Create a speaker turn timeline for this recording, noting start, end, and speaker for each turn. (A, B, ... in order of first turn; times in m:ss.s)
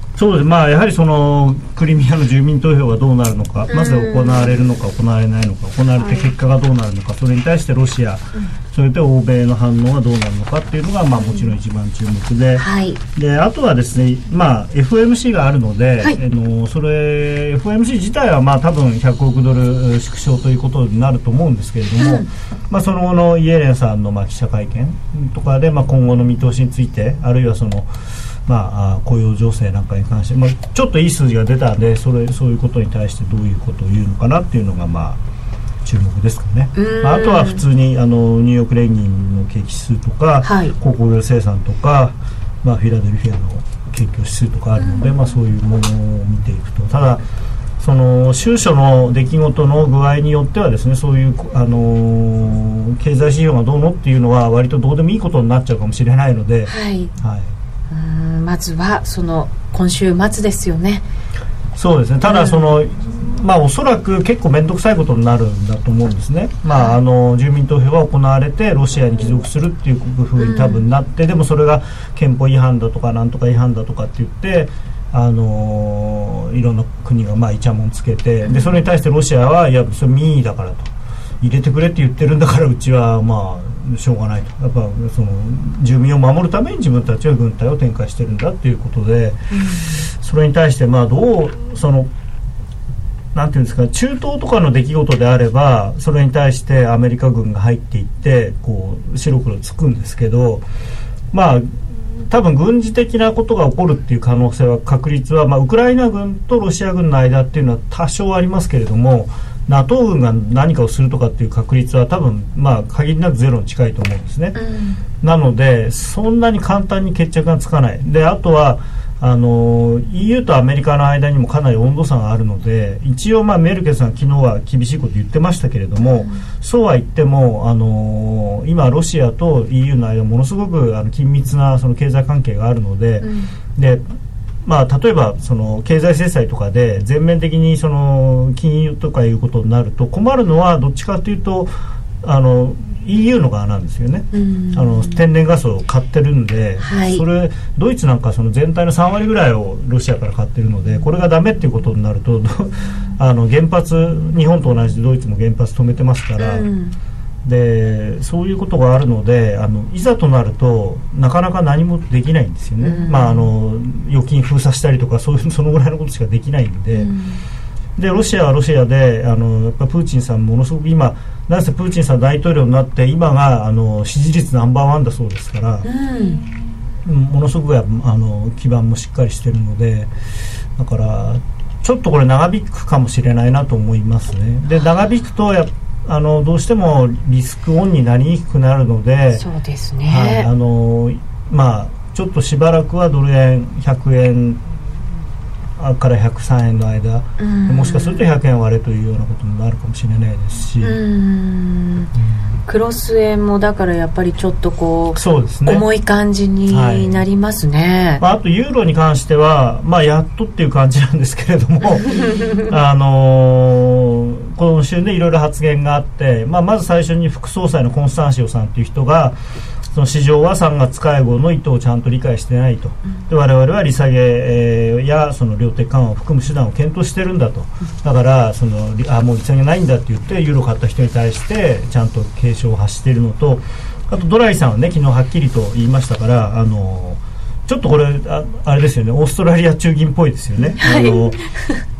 0:00.2-0:27.9 A
0:03.7-0:04.6 B
0:06.0-0:06.3 B
0:11.2-0:11.5 B
0:12.6-0:13.0 B
0:22.0-0:22.3 B
0:28.4-0:35.2 A
0:35.8-0:47.2 A
0:36.7-0:37.6 B
0:40.4-0:40.7 B
0:44.8-0:45.1 B
0:47.8-0:57.5 A
0:56.7-0:57.1 B
0:57.9-1:01.0 B
1:01.8-1:20.9 A
1:02.2-1:02.8 B
1:06.6-1:07.0 B
1:10.4-1:10.8 B
1:18.4-1:18.8 B
1:21.4-1:29.4 A
1:30.2-1:32.1 A
1:33.3-1:40.6 A
1:41.3-1:54.6 A
1:54.5-1:55.0 B
1:55.2-2:14.0 A
2:06.1-2:06.4 B
2:13.2-2:13.5 B
2:14.6-2:21.7 A
2:22.2-2:36.7 A
2:24.3-2:25.2 B
2:26.8-2:27.2 B
2:36.4-2:37.0 B
2:37.4-2:47.1 A
2:42.8-2:43.5 B
2:46.9-2:47.4 B
2:48.0-2:55.9 A
2:55.8-2:56.4 B
2:57.0-3:00.1 A
3:00.8-3:09.4 A
3:09.4-3:10.5 B
3:10.1-3:14.6 A
3:15.8-3:21.0 A
3:17.4-3:18.3 B
3:20.8-3:22.1 B
3:22.7-3:28.2 B
3:25.1-3:25.9 A
3:26.7-3:27.2 A
3:28.2-3:39.4 A
3:32.3-3:32.6 B
3:39.9-4:01.4 A
4:00.6-4:01.8 B